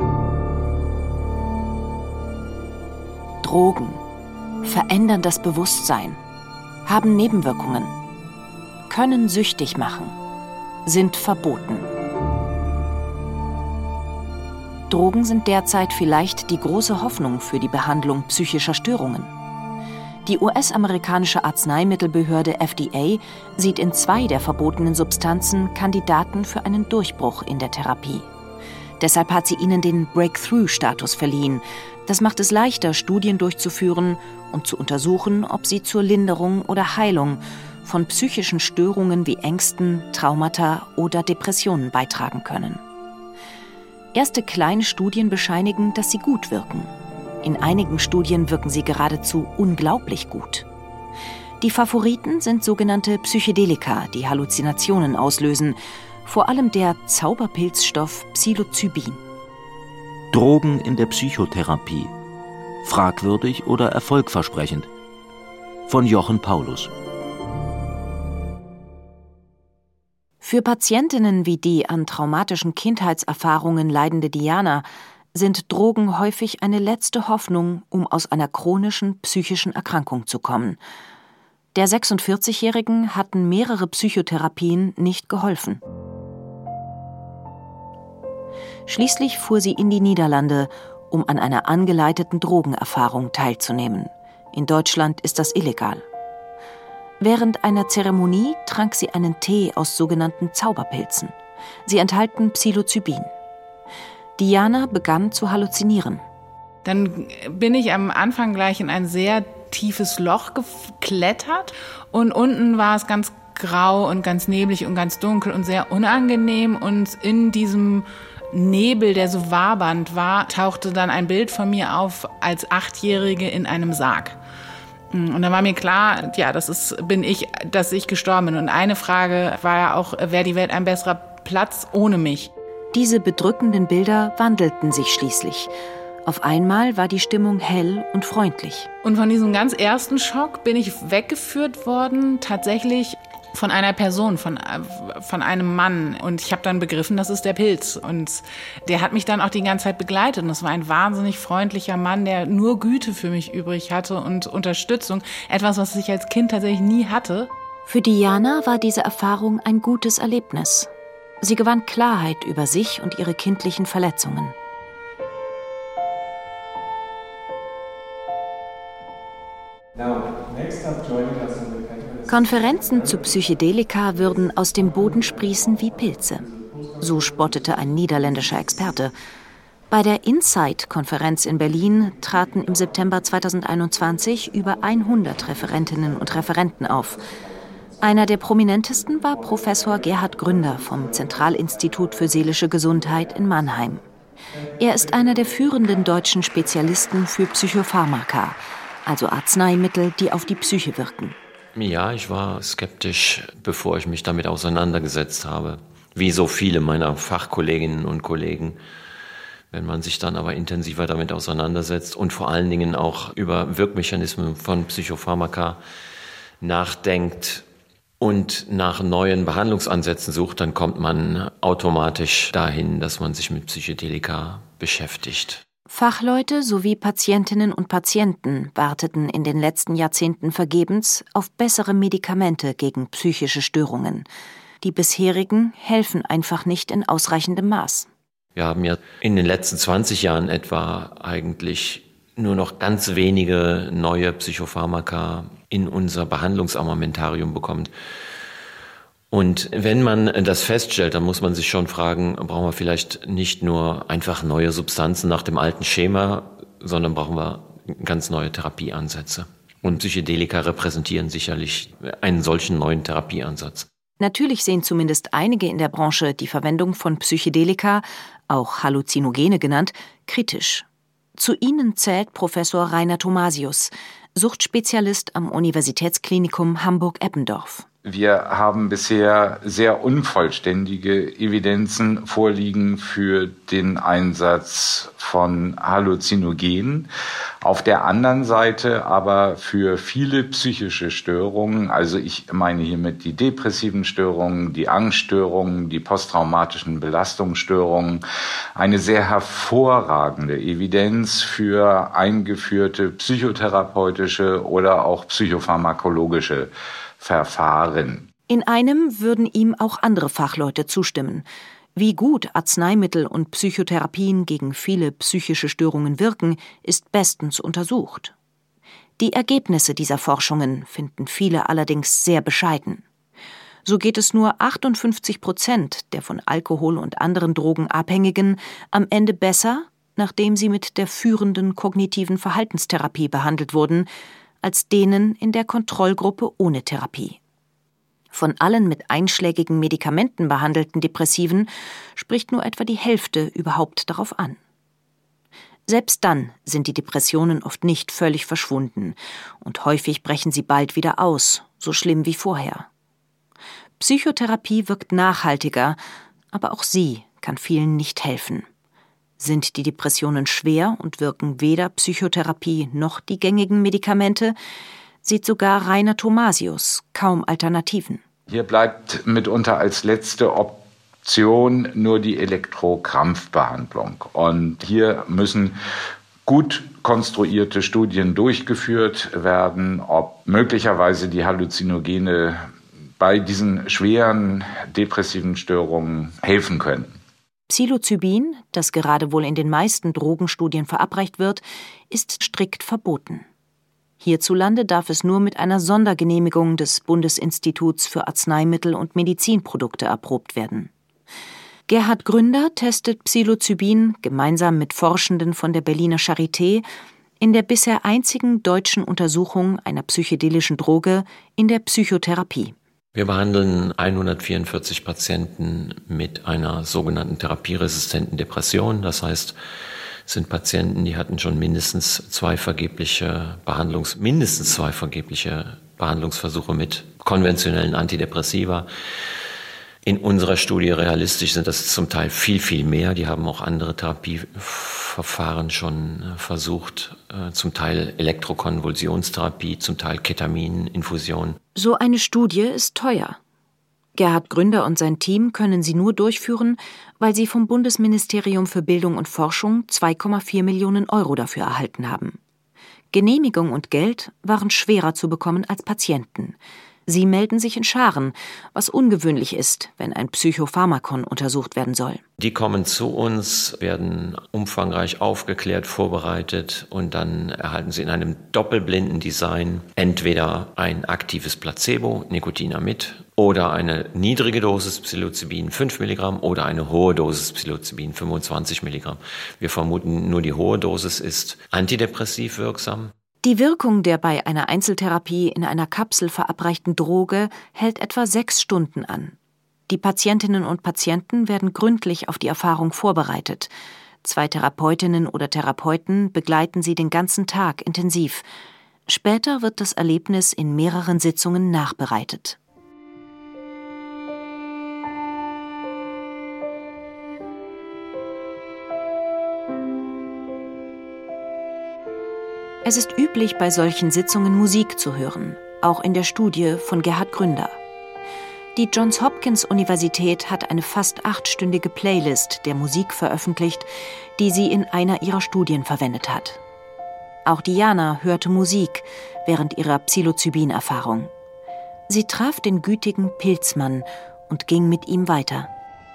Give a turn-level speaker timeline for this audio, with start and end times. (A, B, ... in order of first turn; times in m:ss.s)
0:03.4-0:04.0 A
0:04.6-0:06.2 A
0:06.8-0:07.9 A
0:08.9-0:10.2 A
0:10.8-0:11.8 A
0:14.9-0:19.3 A
0:20.2-0:28.2 A
0:29.0-0:42.8 A
0:44.1-0:46.9 A
0:47.4-0:50.6 A
0:51.6-0:59.2 A
1:00.3-1:02.1 B
1:02.8-1:04.9 B
1:05.9-1:06.9 B
1:10.4-1:20.8 A
1:21.7-1:25.8 A
1:28.9-1:36.0 A
1:37.2-1:43.3 A
1:44.4-1:46.2 A
1:46.8-2:04.4 C
2:05.1-2:12.5 C
2:12.9-2:15.7 A
2:16.2-2:18.9 A
2:19.0-2:37.5 C
2:37.8-2:44.5 A
2:52.2-2:59.2 A
2:59.9-3:07.2 A
3:08.0-3:14.0 A
3:14.8-3:21.4 A
3:21.7-3:28.8 D
3:29.7-3:35.8 D
3:36.6-3:37.6 D
3:38.2-3:45.6 D
3:45.9-3:54.3 A
3:54.8-3:58.1 A
3:58.6-4:07.9 D
4:09.3-4:23.9 D
4:24.2-4:30.8 A
4:31.4-4:37.8 A
4:38.0-4:47.1 E
4:47.6-4:58.2 E
4:58.8-5:08.2 E
5:08.5-5:18.3 A
5:19.2-5:23.0 A
5:23.8-5:34.1 A
5:34.6-5:37.4 A
5:38.3-5:44.6 A
5:45.9-5:52.9 A
5:54.0-5:56.0 A
5:56.5-5:58.6 A
5:59.4-6:04.6 A
6:05.2-6:08.2 A
6:08.5-6:15.7 E
6:16.4-6:22.6 E
6:23.2-6:27.2 E
6:27.7-6:33.4 A
6:34.2-6:40.9 A
6:41.9-6:46.8 A
6:47.4-6:52.7 A
6:53.1-6:59.5 D
7:00.2-7:08.9 D
7:10.0-7:21.6 D
7:21.7-7:23.4 A
7:24.1-7:32.4 A
7:33.1-7:42.2 A
7:42.4-8:03.1 D
8:03.4-8:09.4 A
8:09.9-8:13.7 A
8:14.2-8:18.4 A
8:19.1-8:22.6 A
8:32.8-8:37.8 A
8:38.7-8:46.6 A
8:47.4-8:51.3 A
8:52.1-8:55.7 A